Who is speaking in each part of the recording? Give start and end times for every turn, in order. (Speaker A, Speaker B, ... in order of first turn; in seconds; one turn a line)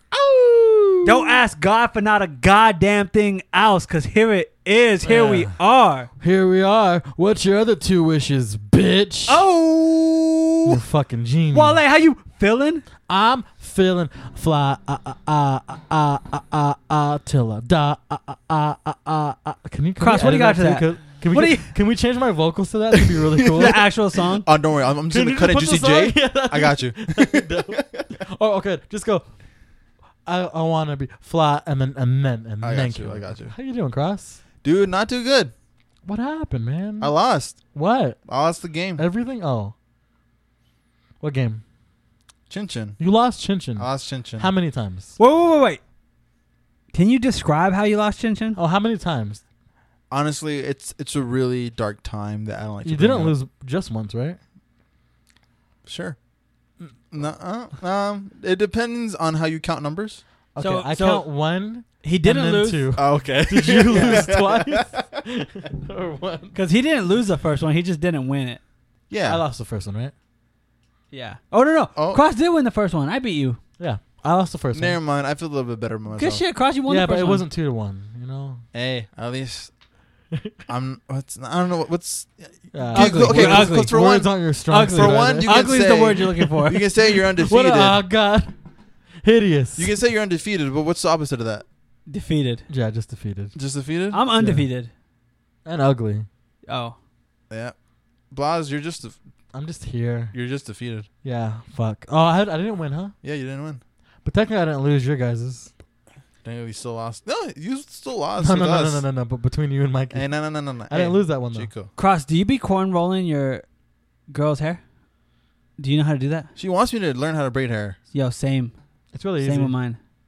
Speaker A: 0.3-1.0
Speaker B: 1.0-6.1
Speaker A: 5.0-5.5
Speaker A: 6.2-9.4
Speaker B: 9.3-10.8
Speaker A: 10.7-11.8
Speaker B: 11.5-12.8
Speaker A: 13.1-23.8
Speaker B: 20.0-21.7
Speaker C: 23.3-28.0
Speaker B: 23.5-24.4
Speaker A: 25.1-29.3
Speaker A: 30.2-34.4
Speaker C: 32.6-33.5
Speaker C: 34.6-35.5
Speaker A: 36.0-38.2
Speaker C: 37.0-37.6
Speaker C: 38.2-39.0
Speaker A: 39.0-39.7
Speaker A: 41.2-41.6
Speaker C: 42.5-43.0
Speaker A: 43.0-45.1
Speaker C: 43.8-44.5
Speaker B: 45.2-45.8
Speaker B: 46.9-48.6
Speaker A: 48.5-49.4
Speaker C: 50.1-53.3
Speaker A: 52.8-54.4
Speaker C: 55.8-56.2
Speaker C: 57.1-60.2
Speaker A: 60.5-66.5
Speaker B: 60.6-61.2
Speaker B: 62.0-62.9
Speaker C: 63.0-65.2
Speaker B: 63.9-64.2
Speaker B: 66.5-68.6
Speaker C: 69.1-69.4
Speaker A: 69.2-70.1
Speaker B: 71.1-73.6
Speaker C: 71.9-72.2
Speaker A: 73.8-75.0
Speaker C: 74.7-76.4
Speaker B: 76.2-77.4
Speaker A: 76.9-78.6
Speaker C: 78.7-79.7
Speaker A: 80.3-80.6
Speaker C: 80.7-84.3
Speaker A: 82.7-85.7
Speaker B: 82.9-83.9
Speaker B: 84.7-86.9
Speaker C: 84.9-88.0
Speaker A: 87.4-88.5
Speaker A: 89.2-89.9
Speaker C: 89.8-91.7
Speaker B: 92.1-92.7
Speaker A: 92.7-93.5
Speaker C: 93.5-94.2
Speaker B: 94.1-94.9
Speaker A: 94.4-94.7
Speaker A: 95.6-96.3
Speaker B: 96.7-97.0
Speaker C: 97.5-97.8
Speaker C: 98.3-99.2
Speaker A: 99.5-100.3
Speaker C: 100.3-101.1
Speaker A: 101.2-103.1
Speaker C: 103.2-103.8
Speaker A: 104.2-105.7
Speaker C: 106.4-109.0
Speaker A: 108.4-110.3
Speaker C: 110.1-111.9
Speaker A: 110.9-111.7
Speaker B: 112.0-113.6
Speaker B: 114.3-114.8
Speaker B: 115.8-116.5
Speaker C: 116.5-118.0
Speaker B: 118.1-118.7
Speaker A: 119.1-119.7
Speaker B: 119.4-120.0